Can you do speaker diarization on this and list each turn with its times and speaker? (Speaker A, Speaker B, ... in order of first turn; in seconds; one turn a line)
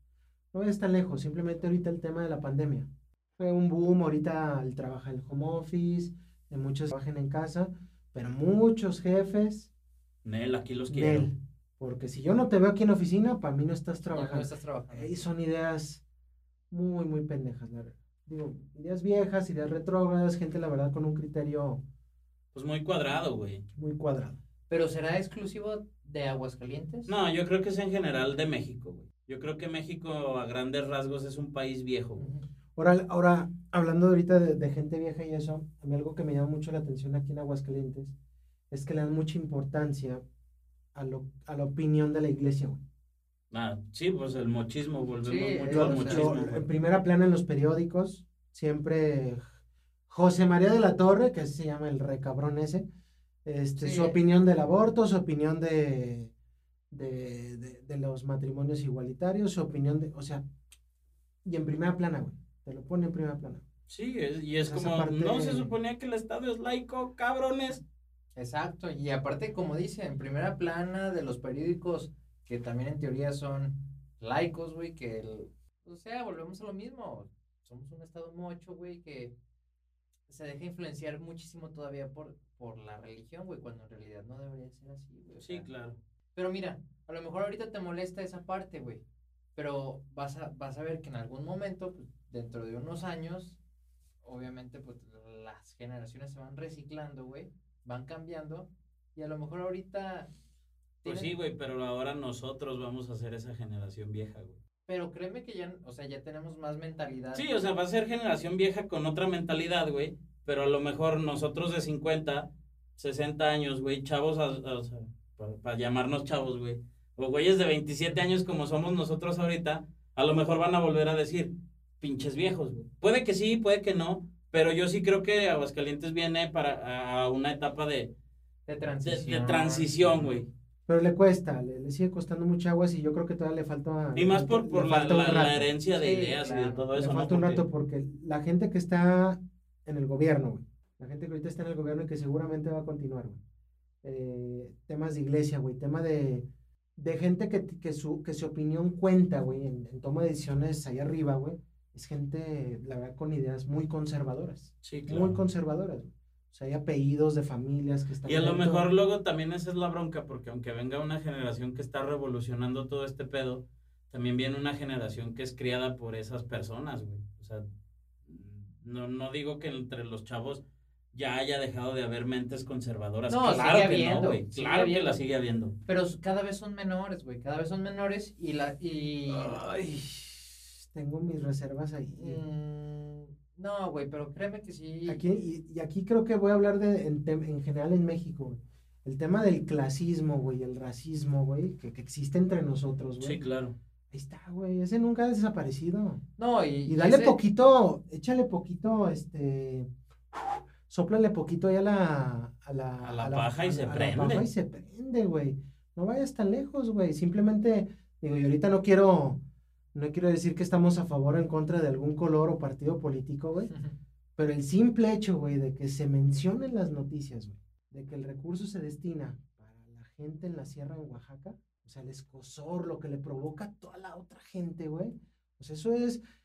Speaker A: 0.5-9.7
Speaker B: 10.2-11.3
Speaker A: 10.9-16.0
Speaker C: 14.1-15.2
Speaker A: 16.7-21.8
Speaker B: 22.5-23.6
Speaker A: 23.8-24.4
Speaker C: 24.7-27.1
Speaker B: 27.1-32.3
Speaker C: 32.2-32.5
Speaker A: 32.8-38.1
Speaker A: 38.7-40.2
Speaker A: 40.9-42.8
Speaker B: 43.5-46.6
Speaker C: 45.2-46.3
Speaker A: 45.7-49.4
Speaker A: 50.1-52.9
Speaker A: 53.4-56.3
Speaker C: 53.8-54.2
Speaker A: 56.9-60.4
Speaker A: 61.4-63.6
Speaker B: 63.9-67.8
Speaker A: 64.6-65.7
Speaker C: 68.3-79.3
Speaker C: 80.3-85.7
Speaker B: 85.4-86.0
Speaker C: 86.3-89.0
Speaker C: 89.5-93.6
Speaker C: 94.2-100.3
Speaker C: 101.0-101.3
Speaker B: 101.0-104.6
Speaker C: 104.9-107.5
Speaker B: 107.3-128.1
Speaker C: 128.7-130.3
Speaker B: 129.0-130.5
Speaker A: 130.9-135.7
Speaker B: 134.1-137.6
Speaker C: 135.9-136.9
Speaker A: 136.9-143.4
Speaker A: 144.0-158.9
Speaker B: 154.8-155.4
Speaker B: 158.2-167.7
Speaker B: 168.2-170.6
Speaker B: 171.1-175.8
Speaker C: 173.3-175.2
Speaker C: 175.8-179.6
Speaker A: 179.3-182.4
Speaker C: 182.2-185.2
Speaker A: 185.1-193.4
Speaker B: 193.2-193.8
Speaker A: 194.1-196.2
Speaker C: 196.4-197.4
Speaker A: 196.8-209.4
Speaker B: 203.0-204.4
Speaker A: 209.9-213.7
Speaker C: 213.7-213.9
Speaker A: 214.4-226.2